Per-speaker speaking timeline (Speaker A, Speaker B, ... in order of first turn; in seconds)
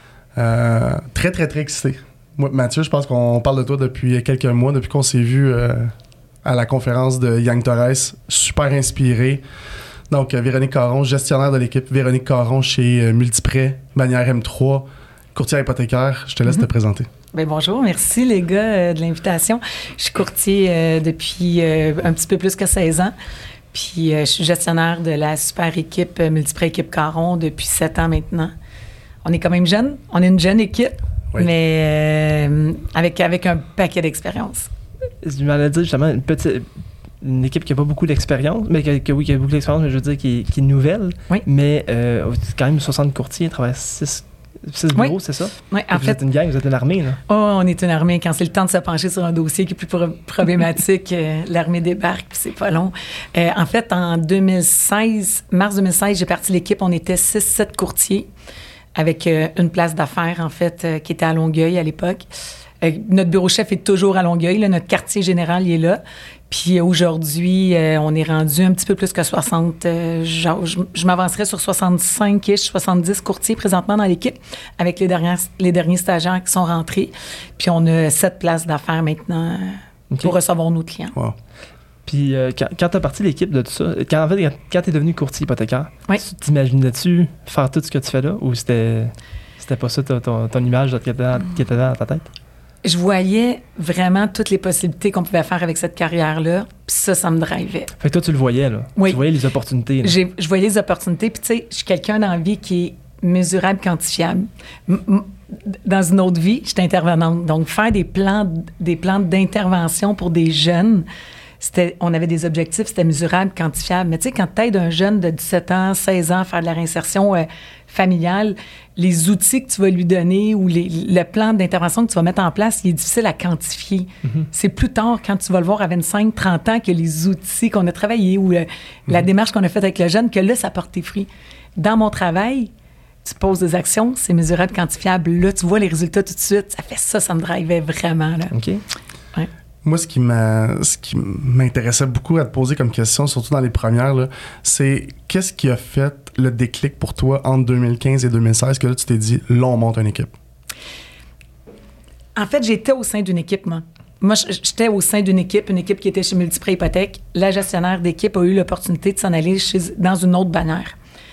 Speaker A: 0.3-5.9, 6.4-9.4, 10.1-17.1, 139.8-150.3
Speaker B: 17.3-23.1, 23.7-28.5, 29.2-34.7, 44.9-46.2, 47.3-58.3, 59.0-62.2, 62.8-81.1, 92.8-97.9, 99.0-99.2, 100.0-111.1, 111.6-132.7, 133.2-138.5, 152.3-160.9
Speaker C: 35.2-36.7, 37.2-47.2, 82.0-92.3, 98.0-100.2, 138.5-138.8